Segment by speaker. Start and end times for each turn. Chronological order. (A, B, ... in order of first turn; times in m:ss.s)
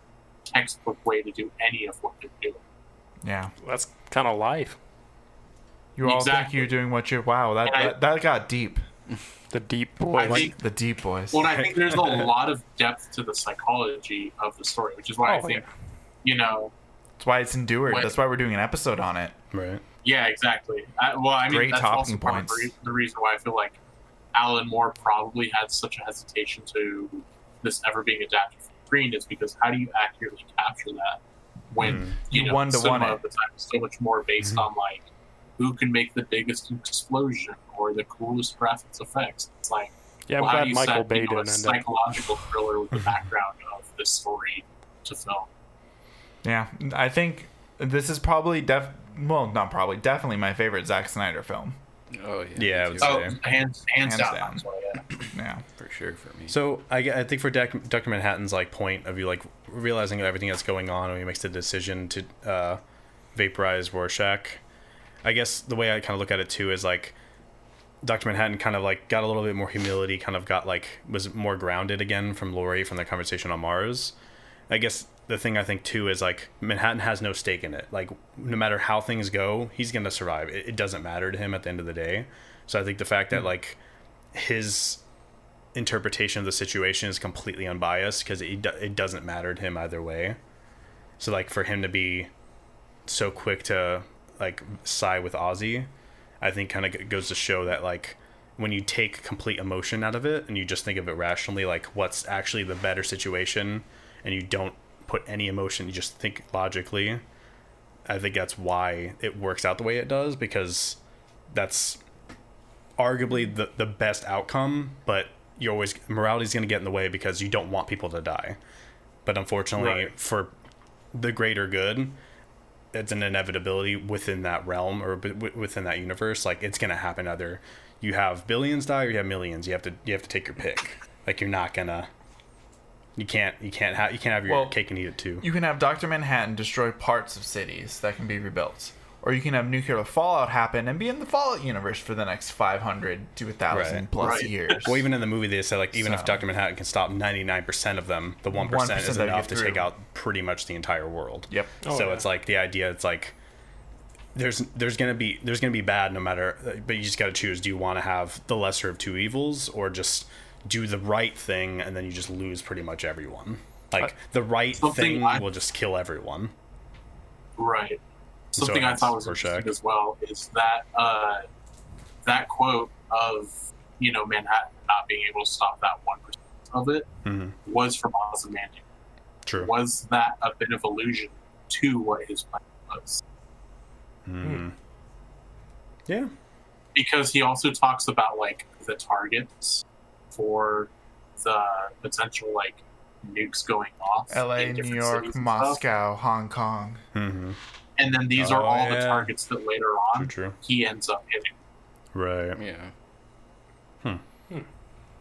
0:00.5-0:02.6 A
0:03.2-0:03.5 B
0:03.6-0:04.8 C
0:06.0-0:08.8 B
0:06.0-0:06.7 A
0:07.6-0:08.0 A
0:09.5-0:10.5 C
0:10.1-0:10.6 A
0:10.3-0:11.6 B
0:11.3-0:15.6 A
0:11.4-0:12.3 D
0:15.2-0:15.6 C
0:16.2-0:16.7 A
0:17.2-0:19.4 B
0:19.5-0:19.8 D
0:20.0-0:23.8 A
0:21.5-0:22.7 B
0:24.3-0:35.1 A
0:31.8-0:32.2 D
0:31.8-0:33.2 B
0:35.6-0:45.5 A
0:40.3-0:41.8 C
0:46.4-0:51.8 B
0:52.1-0:53.4 E
0:52.6-0:53.4 D
0:53.0-0:55.0 A
0:54.0-0:54.6 B
0:55.2-0:55.6 B
0:55.8-0:56.6 E
0:56.5-1:02.8 D
1:03.4-1:04.6 D
1:05.2-1:07.2 D
1:08.0-1:14.2 D
1:14.7-1:23.8 D
1:24.3-1:25.0 D
1:25.7-1:30.4 D
1:31.2-1:32.3 D
1:33.1-1:35.9 D
1:36.4-1:47.2 D
1:48.1-1:51.0 D
1:51.5-1:52.0 D
1:53.0-1:58.6 D
1:59.2-2:00.5 D
2:01.1-2:02.2 D
2:02.9-2:12.1 D
2:13.2-2:15.5 D
2:14.5-2:14.8 B
2:15.4-2:25.0 B
2:23.7-2:24.1 D
2:24.2-2:24.9 A
2:24.8-2:33.4 D
2:25.9-2:26.4 B
2:28.5-2:29.9 B
2:31.8-2:32.2 C
2:34.4-2:46.5 D
2:44.8-2:45.4 A
2:47.6-2:48.0 A
2:48.5-2:51.4 A
2:48.6-2:49.7 D
2:52.2-2:57.1 A
2:57.2-2:57.6 D
2:57.6-2:58.8 A
2:59.5-2:59.7 D
2:59.5-3:03.2 A
3:04.3-3:04.8 D
3:07.0-3:15.8 A
3:14.3-3:17.0 B
3:17.2-3:17.6 D
3:18.0-3:21.5 A
3:18.4-3:19.3 D
3:20.2-3:20.6 D
3:22.1-3:22.6 D
3:22.6-3:22.9 E